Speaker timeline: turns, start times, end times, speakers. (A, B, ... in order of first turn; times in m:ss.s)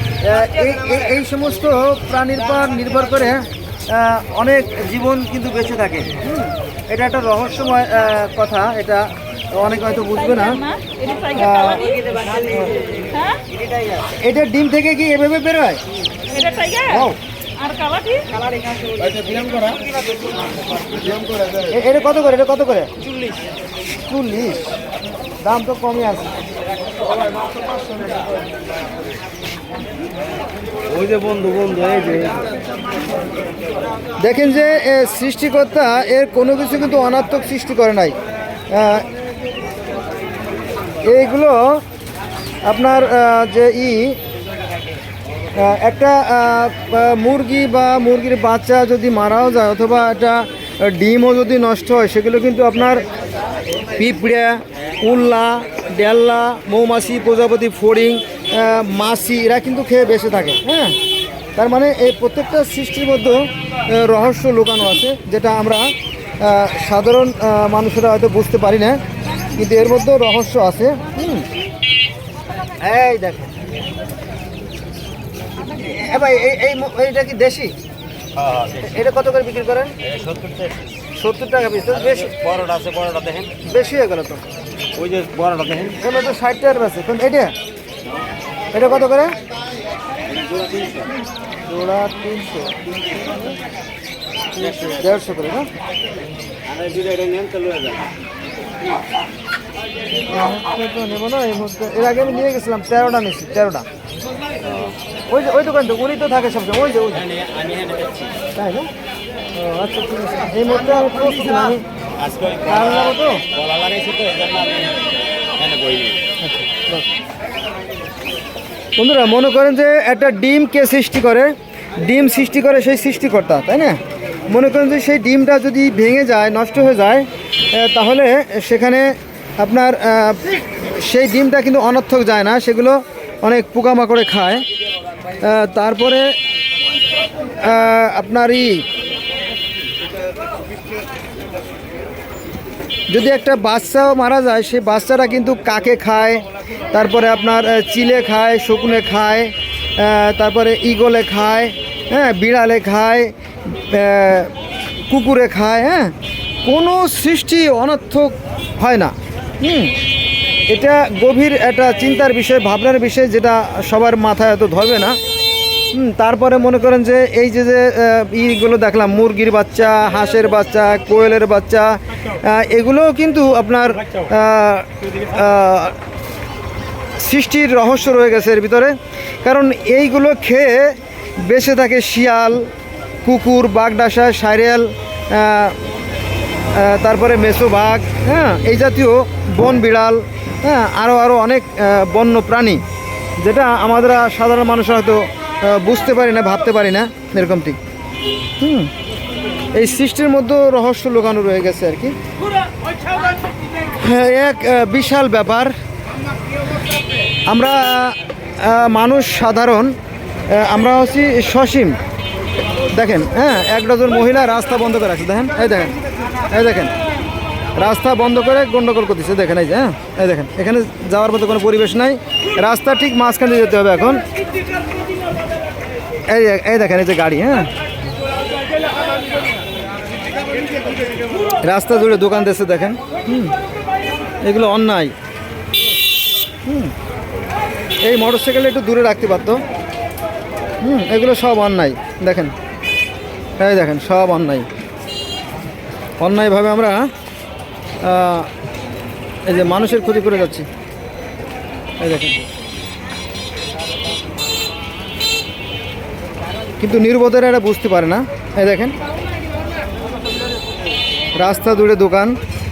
0:00.2-0:10.6 A
0:10.3-0:12.0 B
0:11.3-0:12.8 A
0:12.1-0:12.6 C
0:13.1-0:13.4 B
0:13.7-0:13.9 C
0:14.1-0:15.8 A
0:16.3-0:18.3 B
0:16.8-0:17.2 A
0:18.6-0:19.9 C
0:21.6-0:22.9 A
0:23.9-0:24.8 A
0:25.4-0:26.3 A
0:30.9-0:32.4 C
0:34.2-0:38.2 A
0:38.7-0:39.1 A
0:41.0-0:41.8 A
0:42.6-0:44.2 A
0:45.6-0:53.0 A
0:53.9-1:01.0 A
1:01.6-1:09.0 A
1:09.5-1:11.4 A
1:12.8-1:13.5 A
1:15.7-1:17.8 A
1:18.4-1:18.8 C
1:18.8-1:19.9 A
1:20.0-1:20.8 C
1:21.1-1:22.4 A
1:22.1-1:23.5 C
1:23.6-1:24.4 A
1:24.9-1:26.0 C
1:25.9-1:27.5 A
1:28.7-1:29.4 A
1:30.4-1:31.0 C
1:31.7-1:33.4 A
1:34.6-1:35.7 A
1:36.7-1:38.0 C
1:40.2-1:43.8 A
1:45.3-1:47.3 A
1:47.4-1:48.3 C
1:48.5-1:48.9 A
1:49.5-1:51.8 A
1:52.2-1:55.0 C
1:52.6-1:53.5 A
1:55.5-1:56.2 C
1:56.4-1:57.0 A
1:59.0-2:14.6 A
2:15.4-2:16.3 A
2:17.6-2:18.8 A
2:23.1-2:34.5 A
2:35.1-2:40.0 A
2:40.7-2:45.2 A
2:45.9-2:56.0 A
2:57.2-3:02.7 A
3:03.2-3:05.8 A
3:06.7-3:12.8 A
3:13.4-3:17.8 A
3:18.6-3:18.9 A
3:19.7-3:22.2 A
3:23.9-3:25.7 A
3:27.5-3:30.0 A
3:30.5-3:32.0 A
3:32.9-3:35.9 A
3:36.4-3:36.9 A
3:37.7-3:44.2 A
3:46.3-3:47.7 A
3:51.6-3:53.5 A
3:54.4-3:55.1 A
3:56.6-3:56.9 A
3:58.0-3:59.6 A
4:00.8-4:02.5 A
4:03.6-4:04.7 A
4:06.2-4:07.1 A
4:08.0-4:08.5 A
4:09.4-4:10.7 A
4:12.0-4:12.4 A
4:16.8-4:19.0 A
4:21.4-4:22.4 A